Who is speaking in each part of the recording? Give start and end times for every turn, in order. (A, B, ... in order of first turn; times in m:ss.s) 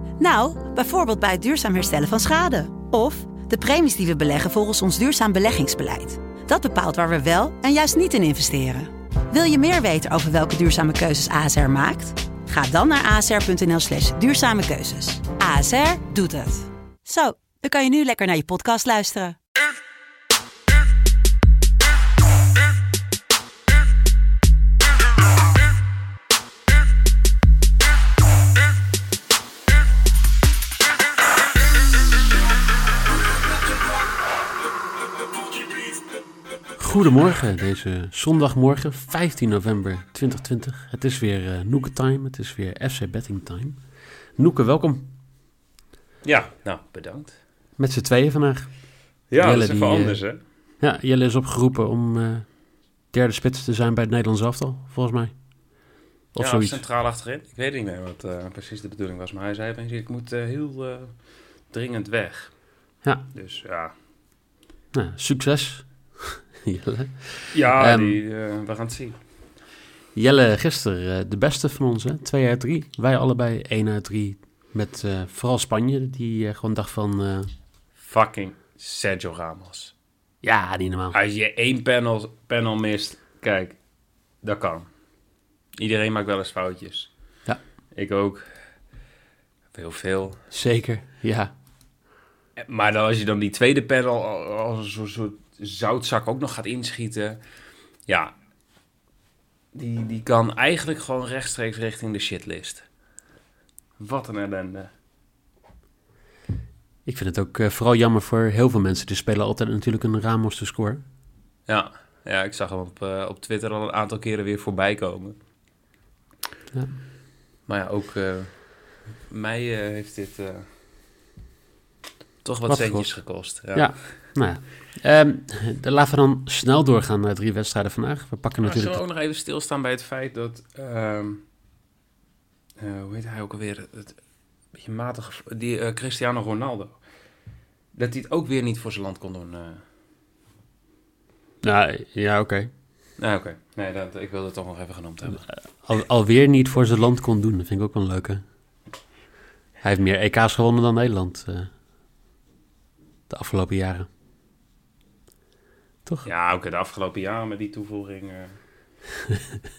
0:00.2-0:19.4 A
0:36.8-0:43.8 B
0:44.4-0:45.1 B
0:46.2-0:47.4 C
0:47.8-0:50.2 B
0:49.3-0:50.4 C
0:50.8-0:55.4 B
0:56.3-0:56.8 B
0:56.4-1:01.2 C
1:01.7-1:02.6 C
1:03.3-1:03.9 C
1:04.9-1:08.2 B
1:07.5-1:09.2 C
1:10.1-1:17.5 B
1:18.0-1:19.9 C
1:20.4-1:21.2 B
1:21.1-1:23.8 C
1:24.4-1:24.8 C
1:25.8-1:27.1 C
1:27.9-1:28.5 C
1:29.7-1:30.4 C
1:30.5-1:31.5 B
1:32.6-1:37.4 C
1:38.1-1:38.3 C
1:39.7-1:42.9 C
1:44.0-1:44.9 C
1:47.0-1:51.0 B
1:51.6-1:55.3 C
1:56.7-1:57.0 B
1:57.6-2:00.7 C
2:02.4-2:04.2 C
2:02.7-2:09.0 B
2:08.6-2:11.4 C
2:12.8-2:14.2 C
2:14.7-2:17.0 C
2:17.9-2:19.8 C
2:21.6-2:22.7 B
2:23.2-2:25.5 C
2:25.8-2:28.4 B
2:29.8-2:31.7 B
2:33.3-2:34.1 B
2:36.2-2:38.5 C